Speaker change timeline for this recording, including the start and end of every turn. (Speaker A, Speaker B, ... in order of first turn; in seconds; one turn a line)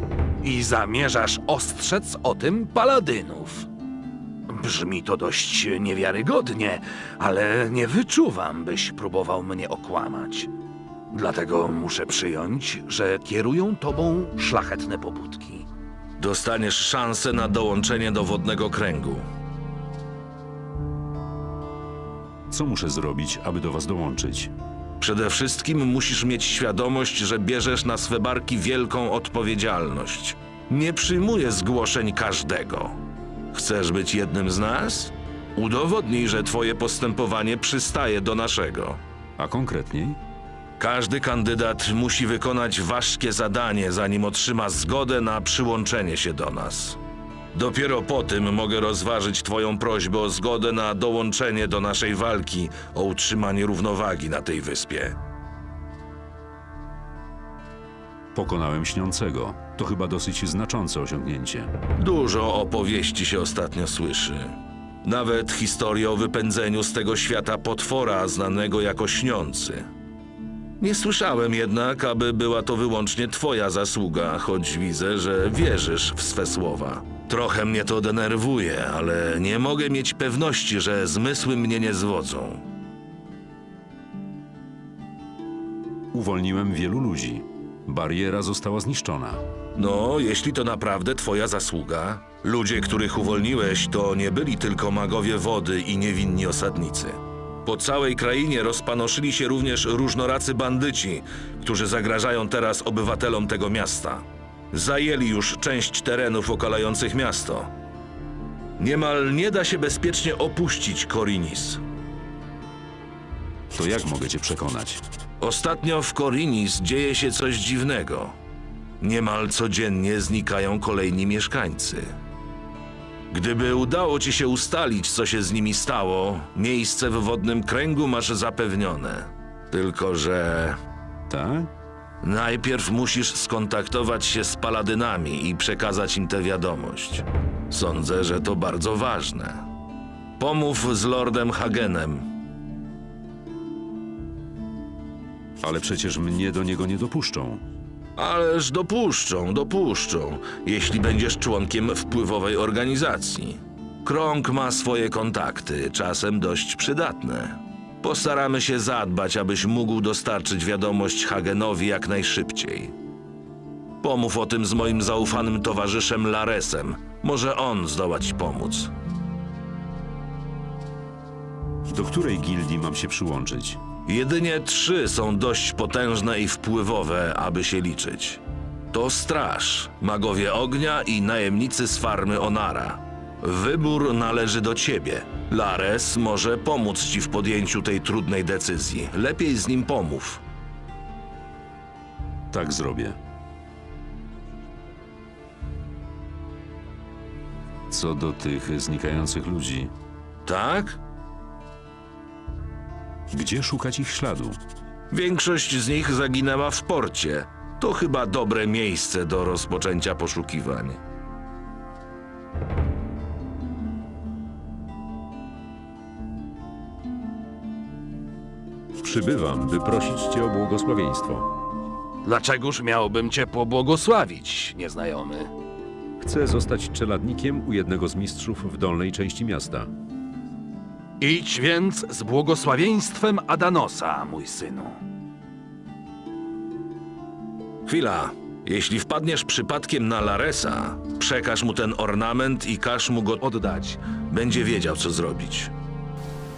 Speaker A: 0.4-3.7
Speaker A: 4.5-10.5
Speaker A: 11.1-15.7
Speaker B: 16.2-19.3
Speaker C: 22.5-24.5
Speaker B: 25.0-33.0
Speaker B: 33.5-39.0
Speaker C: 39.4-40.2
Speaker B: 40.8-47.0
Speaker B: 47.5-55.2
Speaker C: 58.3-61.7
Speaker B: 62.0-69.9
Speaker B: 70.8-82.6
Speaker C: 86.1-89.4
Speaker B: 89.8-107.7
Speaker B: 108.8-111.8
Speaker C: 113.7-115.0
Speaker B: 115.4-118.3
Speaker B: 119.0-122.1
Speaker B: 123.3-130.8
Speaker C: 131.3-131.7
Speaker B: 132.2-139.7
Speaker B: 140.4-142.3
Speaker C: 145.6-147.6
Speaker B: 148.2-162.9
Speaker B: 164.0-168.9
Speaker C: 171.9-173.8
Speaker B: 174.1-178.4
Speaker B: 178.9-190.4
Speaker C: 192.5-193.2
Speaker C: 197.9-199.9
Speaker B: 200.5-201.0
Speaker C: 203.3-204.6
Speaker B: 205.1-211.0
Speaker C: 219.0-221.5
Speaker A: 222.2-225.5
Speaker C: 226.2-229.9
Speaker A: 231.2-235.0
Speaker B: 237.9-243.5
Speaker A: 243.4-244.0
Speaker B: 244.2-245.7